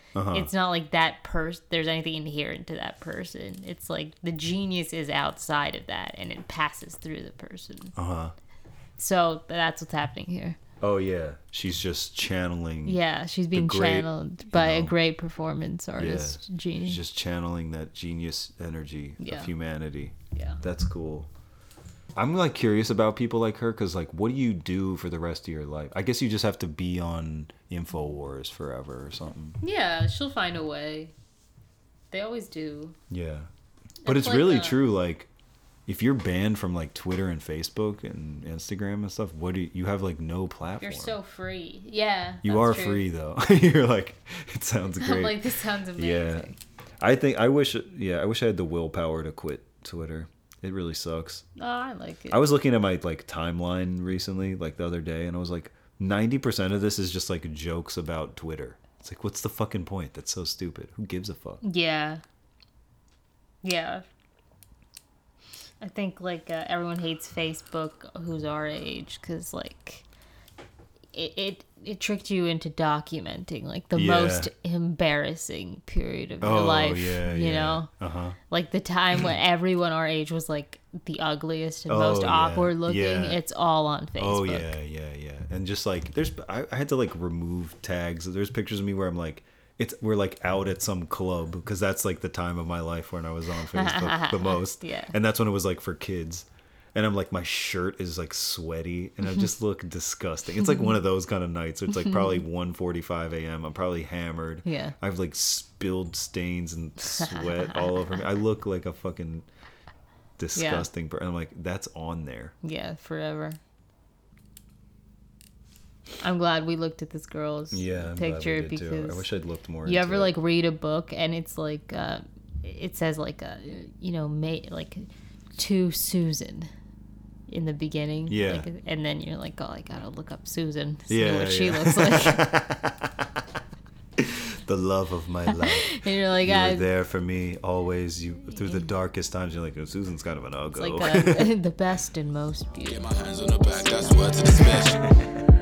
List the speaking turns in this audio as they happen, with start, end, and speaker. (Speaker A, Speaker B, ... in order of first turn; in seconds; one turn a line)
Speaker A: 0.1-0.5
Speaker B: 0.3-7.9
Speaker A: 8.0-8.3
Speaker B: 9.0-10.6
Speaker A: 10.8-13.0
Speaker B: 12.8-17.0
Speaker A: 13.5-14.9
Speaker A: 16.0-21.3
Speaker B: 19.2-19.5
Speaker B: 20.3-20.6
Speaker A: 22.2-29.6
Speaker B: 29.6-31.1
Speaker B: 32.1-33.0
Speaker A: 33.1-33.5
Speaker B: 34.0-34.8
Speaker A: 34.0-35.3
Speaker A: 35.9-41.2
Speaker B: 40.8-43.0
Speaker A: 42.4-45.4
Speaker B: 45.0-46.6
Speaker A: 46.0-51.5
Speaker B: 51.6-52.4
Speaker A: 52.3-61.6
Speaker B: 61.6-62.2
Speaker B: 63.6-64.0
Speaker B: 65.8-70.0
Speaker B: 71.1-77.9
Speaker A: 74.0-74.5
Speaker A: 76.4-78.4
Speaker B: 78.5-84.7
Speaker A: 81.9-83.4
Speaker A: 84.2-109.5
Speaker B: 93.7-95.1
Speaker B: 104.7-105.0
Speaker A: 110.4-112.5
Speaker B: 110.6-110.9
Speaker B: 112.6-113.6
Speaker B: 116.2-119.2
Speaker A: 117.7-120.3
Speaker B: 119.8-126.7
Speaker B: 127.5-132.5
Speaker A: 128.3-128.7
Speaker A: 131.1-133.4
Speaker A: 134.2-141.6
Speaker B: 135.5-136.9
Speaker B: 140.8-144.9
Speaker C: 142.8-145.1